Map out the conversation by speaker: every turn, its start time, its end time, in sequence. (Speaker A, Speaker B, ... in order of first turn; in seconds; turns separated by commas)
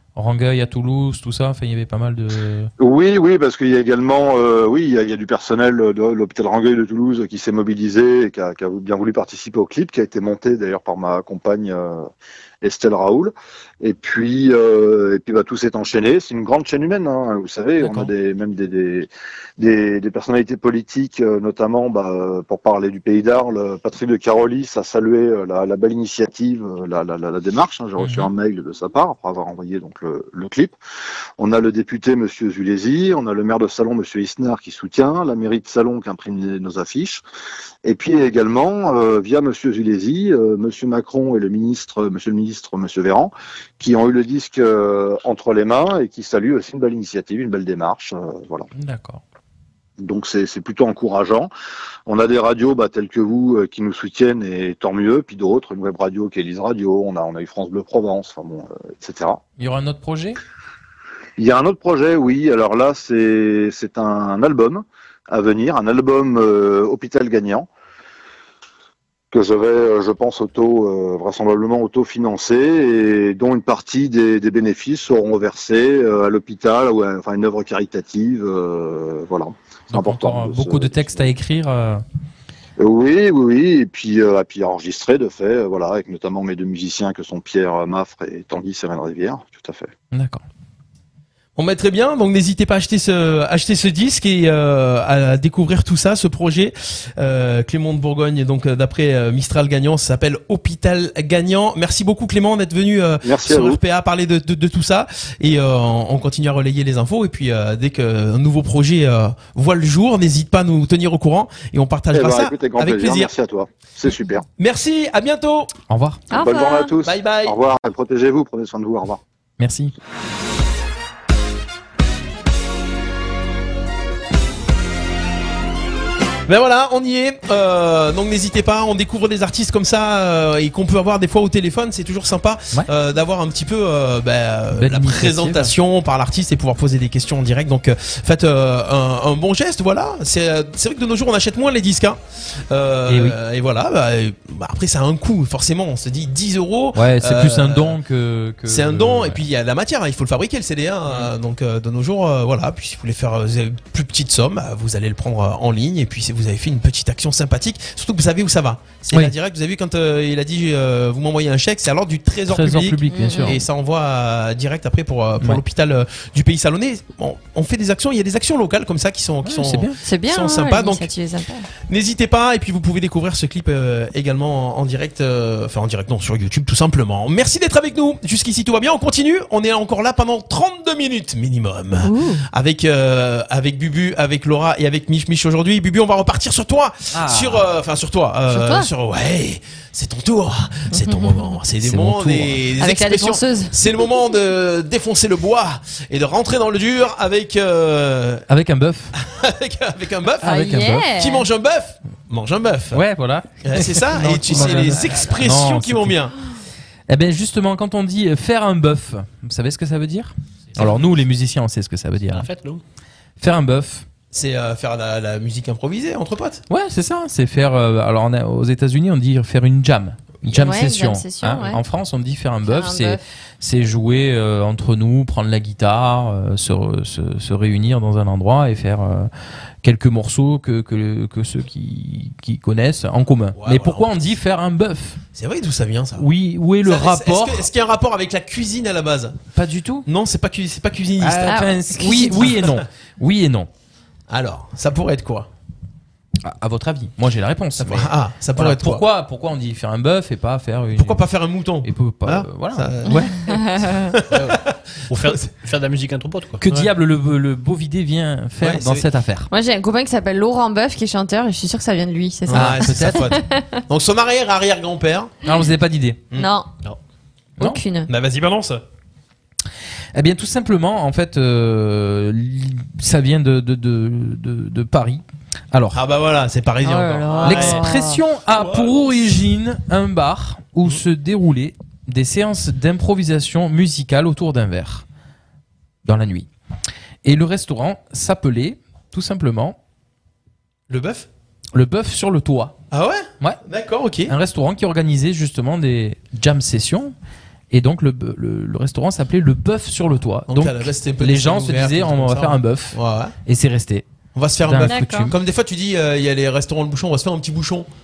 Speaker A: 0.2-2.7, Speaker B: 2.8-12.1, Speaker B: 12.6-30.8, Speaker A: 17.8-18.1, Speaker A: 28.0-28.3, Speaker B: 31.4-37.2, Speaker B: 37.9-48.7, Speaker A: 48.8-49.2, Speaker B: 50.0-51.5, Speaker B: 52.1-59.4, Speaker A: 59.6-60.4, Speaker B: 61.4-67.7, Speaker B: 69.3-81.3, Speaker A: 79.9-82.0, Speaker B: 82.8-89.9, Speaker A: 90.1-90.4, Speaker C: 91.6-113.3, Speaker B: 103.2-103.8, Speaker B: 112.1-114.5, Speaker C: 114.6-115.7, Speaker A: 115.9-116.2, Speaker B: 116.3-119.2, Speaker D: 116.3-116.9, Speaker C: 117.0-117.6, Speaker A: 119.6-119.9, Speaker C: 126.5-148.0, Speaker A: 134.7-135.7, Speaker A: 143.1-143.4, Speaker A: 146.9-149.4, Speaker C: 148.7-171.1, Speaker A: 162.5-163.6, Speaker D: 163.1-163.6, Speaker A: 169.4-170.0, Speaker D: 170.0-171.7, Speaker C: 171.9-198.5, Speaker D: 182.0-182.4, Speaker A: 187.1-187.7, Speaker D: 188.5-188.9, Speaker D: 190.9-191.6, Speaker A: 191.8-192.6, Speaker D: 192.8-193.8, Speaker A: 198.5-199.1, Speaker C: 199.2-203.0, Speaker A: 200.4-201.1, Speaker D: 200.4-201.5, Speaker A: 202.9-206.2, Speaker C: 203.6-206.3, Speaker A: 207.1-212.5, Speaker E: 212.3-212.8, Speaker A: 213.4-214.1, Speaker C: 214.3-216.6, Speaker A: 216.7-229.3, Speaker D: 220.5-221.8, Speaker D: 222.7-223.2, Speaker A: 229.8-235.2, Speaker C: 233.6-234.1, Speaker C: 235.3-236.3, Speaker A: 236.2-237.7, Speaker C: 236.8-239.4, Speaker A: 239.6-240.1, Speaker C: 240.1-241.6, Speaker A: 241.2-243.7, Speaker D: 241.5-242.6, Speaker C: 242.4-242.8, Speaker C: 244.3-245.5, Speaker A: 246.4-251.2, Speaker C: 247.8-249.1, Speaker C: 251.0-255.4, Speaker A: 251.8-253.3, Speaker D: 253.1-254.2, Speaker E: 254.3-256.6, Speaker A: 256.6-259.5, Speaker C: 258.6-259.1, Speaker D: 259.5-263.8, Speaker C: 262.5-265.4, Speaker A: 262.5-263.3, Speaker A: 265.4-266.2, Speaker D: 266.3-266.7, Speaker D: 267.6-268.1, Speaker C: 268.1-268.8, Speaker A: 270.1-276.0, Speaker C: 275.9-277.9, Speaker D: 276.8-278.2, Speaker A: 277.4-285.1, Speaker C: 278.6-278.9, Speaker A: 286.1-286.5, Speaker A: 287.2-289.8, Speaker C: 290.9-291.3, Speaker A: 291.7-292.8, Speaker C: 292.9-294.3, Speaker A: 294.3-297.1, Speaker A: 297.7-304.1, Speaker C: 300.5-303.4, Speaker C: 304.4-307.9, Speaker A: 304.6-305.4, Speaker D: 304.8-305.3